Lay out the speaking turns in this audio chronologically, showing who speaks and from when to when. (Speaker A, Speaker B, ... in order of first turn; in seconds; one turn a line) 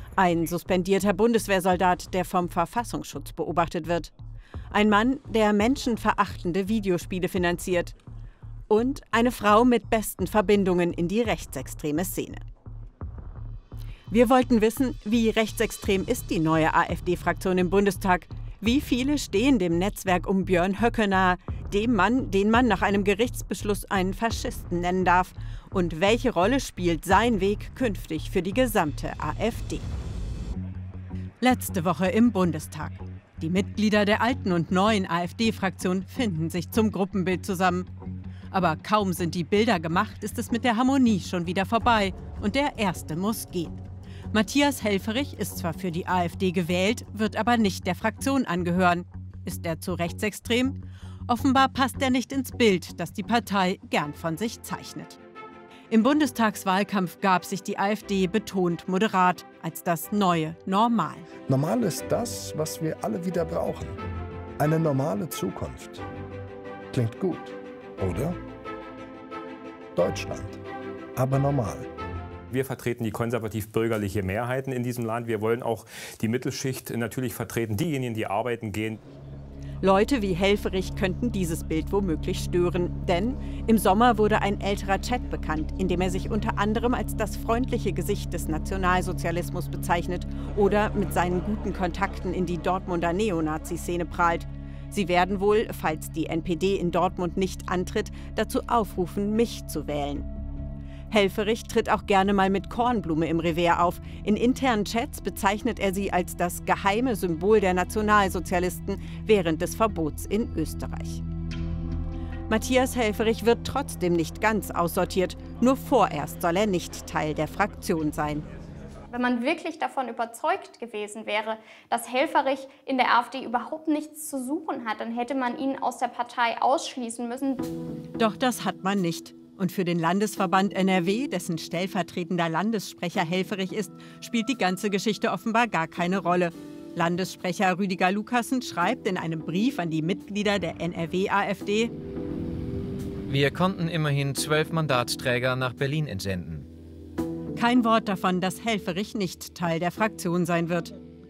Speaker A: 0.2-4.1
Speaker A: 4.7-7.9
Speaker A: 8.7-12.4
Speaker A: 14.1-29.9
Speaker A: 31.4-37.9
Speaker A: 38.5-43.8
Speaker A: 44.3-55.2
Speaker A: 55.9-61.3
Speaker B: 61.5-64.0
Speaker B: 64.6-66.0
Speaker B: 66.9-68.4
Speaker B: 70.0-70.6
Speaker B: 71.2-71.9
Speaker C: 72.5-79.0
Speaker A: 79.8-100.3
Speaker A: 101.1-111.2
Speaker A: 112.5-118.5
Speaker D: 119.1-127.6
Speaker A: 128.2-141.9
Speaker E: 143.3-146.7
Speaker A: 147.6-150.9